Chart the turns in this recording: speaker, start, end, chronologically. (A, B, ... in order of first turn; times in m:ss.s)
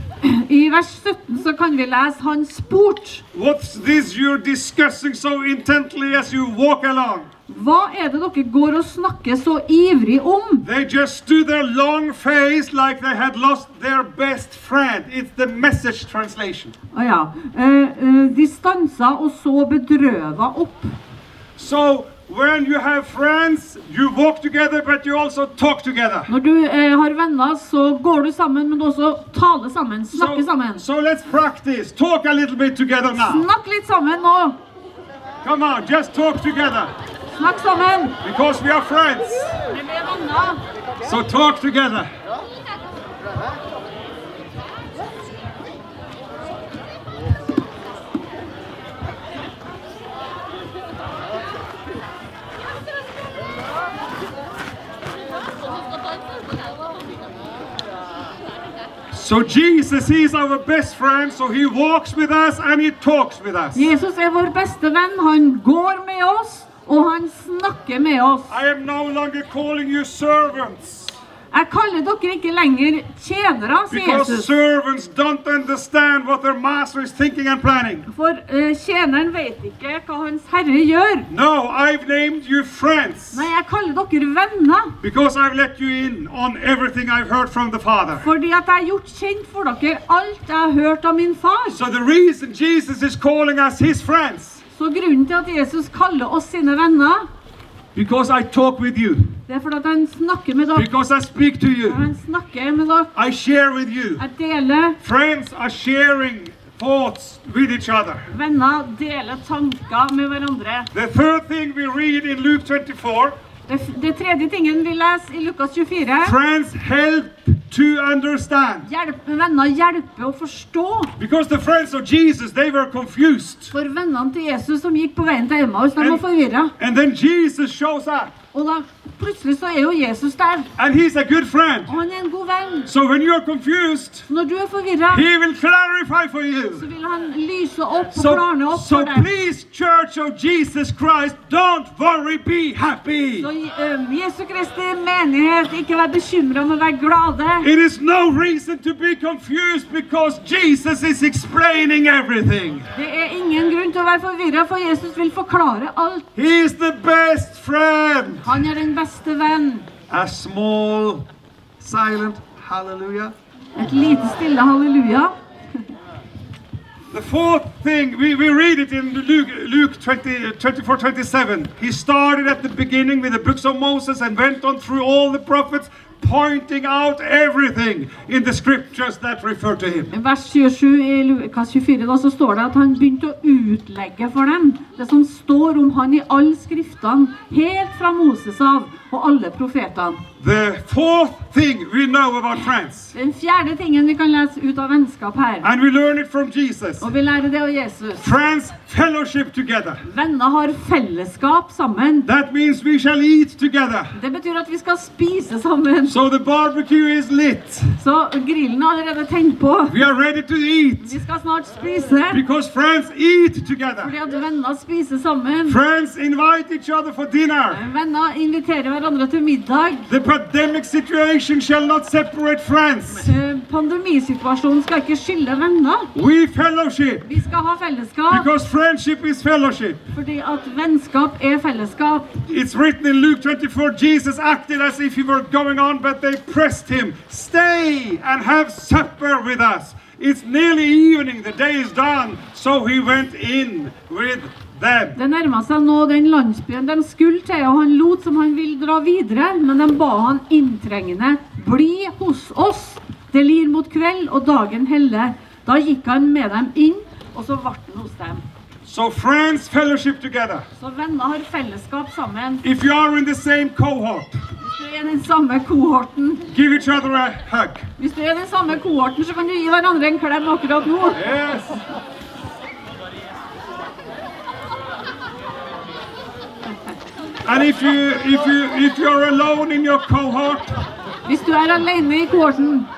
0:00.2-0:03.2 A
0:03.3-0:07.3 B
0:07.5-0:10.7 A
0:10.6-0:16.7 B
0:16.9-0:20.9 A
0:21.6-0:26.3 B
0:26.3-0:30.8 A
0:30.1-0:33.5 B
0:33.1-0:34.6 A
0:35.4-0:36.9 B
0:37.3-0:38.2 A
0:38.2-0:39.6 B
0:39.7-0:40.6 A
0:41.0-0:42.1 B
0:59.1-1:03.9 B
1:03.7-1:08.5 A
1:08.5-1:11.2 B
1:11.5-1:14.5 A
1:13.9-1:18.1 B
1:18.1-1:21.3 A
1:21.3-1:23.5 B
1:23.3-1:25.0 A
1:25.0-1:28.3 B
1:28.2-1:31.8 A
1:31.7-1:34.6 B
1:34.7-1:37.3 A
1:38.0-1:39.3 B
1:39.5-1:40.9 A
1:40.8-1:42.0 B
1:41.8-1:43.1 A
1:43.2-1:44.2 B
1:44.2-1:45.0 A
1:45.0-1:48.3 B
1:48.3-1:50.9 A
1:50.9-1:53.4 B
1:53.7-1:56.4 A
1:56.2-1:58.9 B
1:58.8-2:01.1 A
2:01.2-2:03.7 B
2:03.7-2:06.7 A
2:06.0-2:06.2 B
2:06.8-2:08.4 B
2:08.5-2:10.7 A
2:10.8-2:11.9 B
2:11.9-2:12.9 A
2:12.9-2:14.3 B
2:14.3-2:15.3 A
2:15.1-2:16.9 B
2:16.7-2:19.3 A
2:18.1-2:23.5 B
2:23.4-2:27.7 A
2:27.6-2:32.9 B
2:32.9-2:36.3 A
2:36.4-2:38.6 B
2:38.4-2:39.9 A
2:40.1-2:41.2 B
2:41.8-2:43.3 B
2:43.8-2:45.3 A
2:47.1-3:00.1 B
3:00.1-3:10.2 A
3:10.4-3:13.2 B
3:13.1-3:15.7 A
3:15.6-3:17.1 B
3:17.0-3:18.3 A
3:18.2-3:20.0 B
3:20.0-3:22.3 A
3:22.3-3:24.1 B
3:24.1-3:26.2 A
3:26.1-3:28.0 B
3:28.0-3:30.0 A
3:29.9-3:31.2 B
3:31.0-3:32.4 A
3:32.3-3:34.2 B
3:34.0-3:35.8 A
3:35.7-3:37.8 B
3:37.7-3:40.1 A
3:40.1-3:43.3 B
3:43.2-3:46.1 A
3:46.2-3:47.4 B
3:47.2-3:48.5 A
3:48.3-3:50.0 B
3:50.1-3:52.4 A
3:52.5-4:05.2 B
4:05.2-4:18.4 A
4:18.9-4:20.6 B
4:20.8-4:22.6 A
4:22.6-4:24.4 B
4:24.6-4:26.5 A
4:26.5-4:27.9 B
4:28.0-4:31.4 A
4:31.1-4:31.8 B
4:37.4-4:40.7 B
4:41.2-4:42.9 A